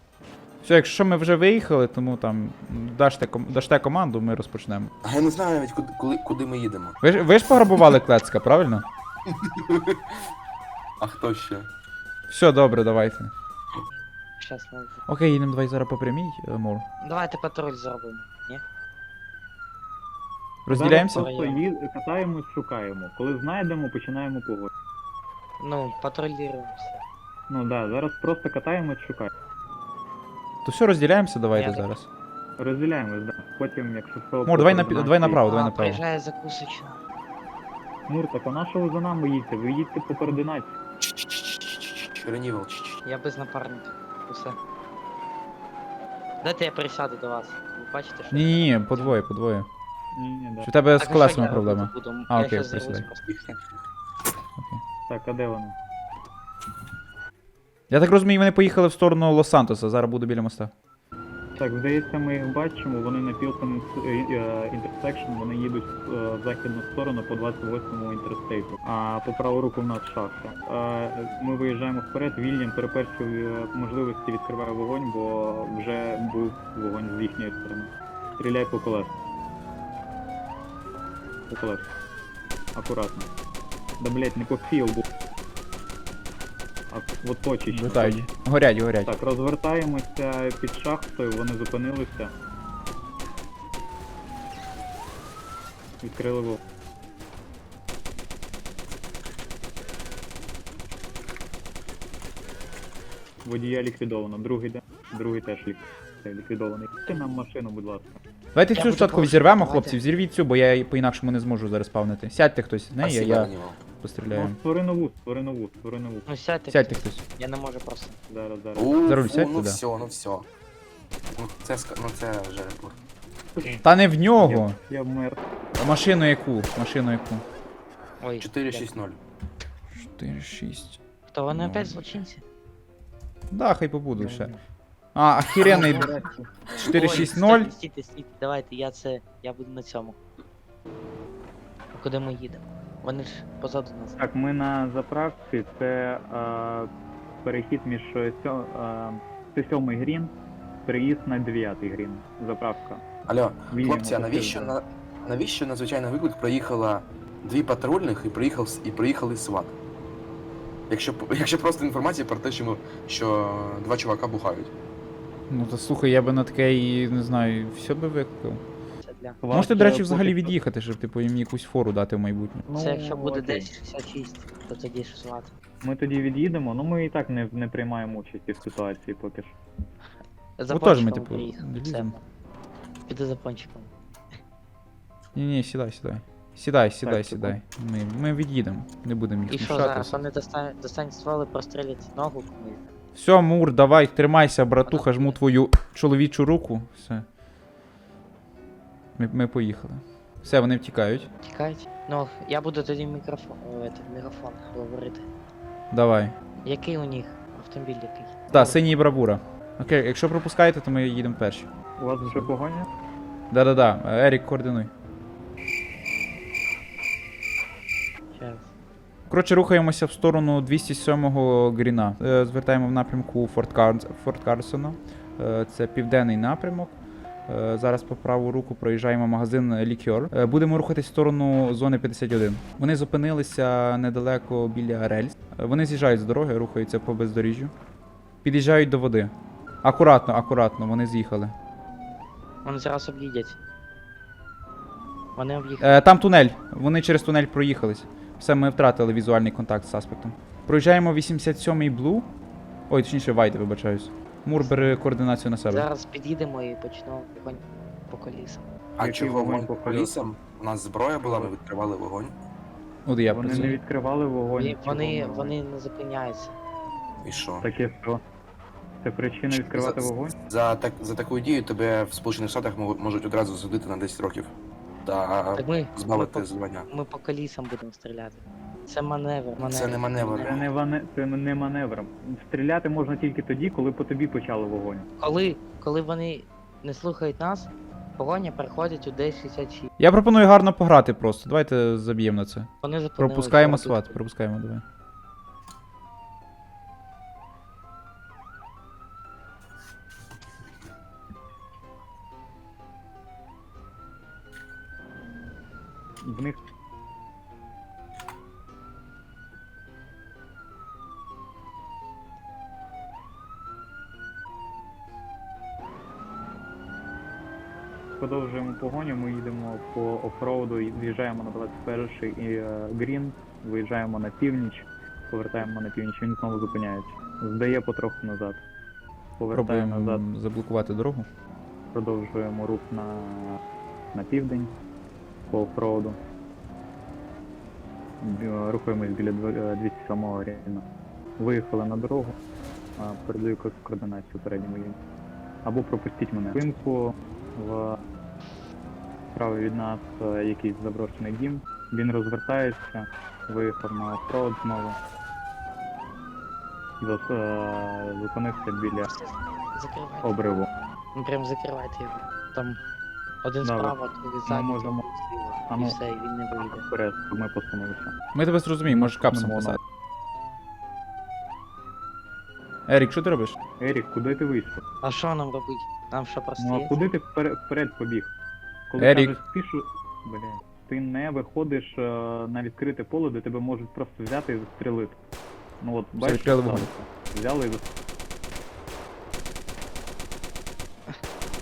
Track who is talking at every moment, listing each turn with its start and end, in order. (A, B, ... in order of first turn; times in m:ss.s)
0:00.6-0:04.9 A
0:05.0-0:07.0 B
0:07.0-0:08.9 A
0:09.3-0:10.2 B
0:11.0-0:11.7 B
0:12.3-0:13.3 A
0:14.4-0:15.0 C
0:15.1-0:16.8 A
0:17.0-0:18.6 C
0:20.6-0:21.3 A
0:20.7-0:24.7 D
0:21.1-0:21.6 C
0:25.6-0:27.0 C
0:27.5-0:29.3 D
0:30.6-0:32.1 A
0:31.5-0:31.9 C
0:32.6-0:35.4 D
0:34.5-0:36.0 A
0:35.4-0:37.0 C
0:38.1-0:40.7 D
0:42.0-0:43.0 B
0:43.0-0:44.6 C
0:46.4-0:49.2 C
0:48.3-0:49.7 A
0:50.1-0:50.7 D
0:50.6-0:53.1 A
0:51.0-0:53.6 C
0:53.3-0:53.6 B
0:55.1-0:55.8 D
0:57.9-1:00.7 A
1:01.6-1:19.2 D
1:21.5-1:21.9 D
1:22.8-1:23.3 D
1:24.0-1:25.0 D
1:26.9-1:28.3 D
1:27.7-1:29.1 A
1:29.0-1:32.3 D
1:36.0-1:36.6 D
1:43.4-1:48.2 D
1:48.6-1:54.6 A
1:48.8-1:50.0 C
1:53.0-1:53.8 B
1:54.3-1:56.3 D
1:56.3-1:58.2 C
1:56.7-1:57.2 A
1:58.3-1:59.0 D
1:58.8-2:00.5 B
1:59.1-1:59.8 A
2:01.3-2:03.0 B
2:03.8-2:04.8 A
2:04.4-2:05.4 D
2:05.8-2:07.4 A
2:08.2-2:09.0 C
2:08.4-2:09.2 B
2:09.9-2:11.0 A
2:11.3-2:12.4 C
2:11.5-2:12.2 A
2:13.5-2:14.6 A
2:14.1-2:14.6 D
2:15.2-2:16.2 A
2:15.6-2:16.2 C
2:15.6-2:16.5 D
2:16.8-2:20.2 C
2:16.8-2:17.7 A
2:16.8-2:17.3 B
2:21.9-2:24.2 C
2:24.2-2:26.9 D
2:27.4-2:30.3 D
2:30.9-2:33.0 D
2:33.3-2:39.8 B
2:33.7-2:34.8 D
2:40.9-2:44.7 B
2:45.5-2:48.6 A
2:49.0-2:49.4 C
2:49.4-2:50.6 D
2:49.5-2:52.6 A
2:52.6-2:53.7 D
2:52.7-2:55.5 C
2:55.8-2:59.6 D
3:00.6-3:02.2 C
3:00.7-3:02.2 A
3:03.1-3:03.9 C
3:05.4-3:10.2 A
3:07.0-3:07.6 D
3:09.5-3:12.9 C
3:13.2-3:17.2 A
3:14.8-3:15.4 C
3:19.2-3:21.3 A
3:21.4-3:25.3 C
3:25.9-3:26.3 A
3:26.6-3:28.8 C
3:28.5-3:31.7 A
3:32.0-3:32.9 D
3:32.2-3:32.5 A
3:33.5-3:34.9 A
3:38.3-3:38.7 C
3:39.3-3:47.0 A
3:47.5-3:57.7 A
3:58.4-4:01.5 A
4:02.6-4:03.6 C
4:05.4-4:06.1 C
4:05.8-4:12.3 A
4:12.9-4:15.9 A
4:14.6-4:15.0 C
4:15.7-4:18.6 C
4:19.0-4:22.4 B
4:19.0-4:20.2 D
4:21.2-4:21.5 D
4:23.1-4:23.8 A
4:23.3-4:25.6 D
4:24.6-4:26.6 C
4:27.2-4:27.6 B
4:27.6-4:28.2 D
4:29.0-4:30.4 D
4:29.5-4:34.5 B
4:35.0-4:36.9 B
4:35.6-4:40.5 C
4:39.6-4:40.7 B
4:40.4-4:45.1 D
4:45.2-4:49.9 C
4:50.0-4:54.8 A
4:52.8-4:54.2 C
5:06.2-5:06.6 D
5:18.2-5:28.6 D
5:29.4-5:30.2 D
5:29.5-5:31.3 A
5:31.9-5:33.6 D
5:34.1-5:34.7 D
5:35.5-5:36.2 D
5:38.2-5:40.8 D
5:41.4-5:42.4 D
5:43.0-5:45.0 D
5:45.6-5:48.0 D
5:49.3-5:55.0 D
5:57.0-5:59.1 D
5:59.0-6:00.4 C
6:00.2-6:00.7 D
6:01.1-6:02.8 C
6:03.4-6:06.8 C
6:03.6-6:05.0 D
6:05.7-6:06.0 D
6:06.6-6:08.2 D
6:08.3-6:09.8 A
6:08.9-6:09.8 D
6:12.9-6:13.6 A
6:13.8-6:14.8 D
6:15.0-6:17.0 C
6:16.6-6:18.3 D
6:18.9-6:25.2 D
6:19.0-6:19.4 A
6:25.8-6:27.8 D
6:26.2-6:26.9 A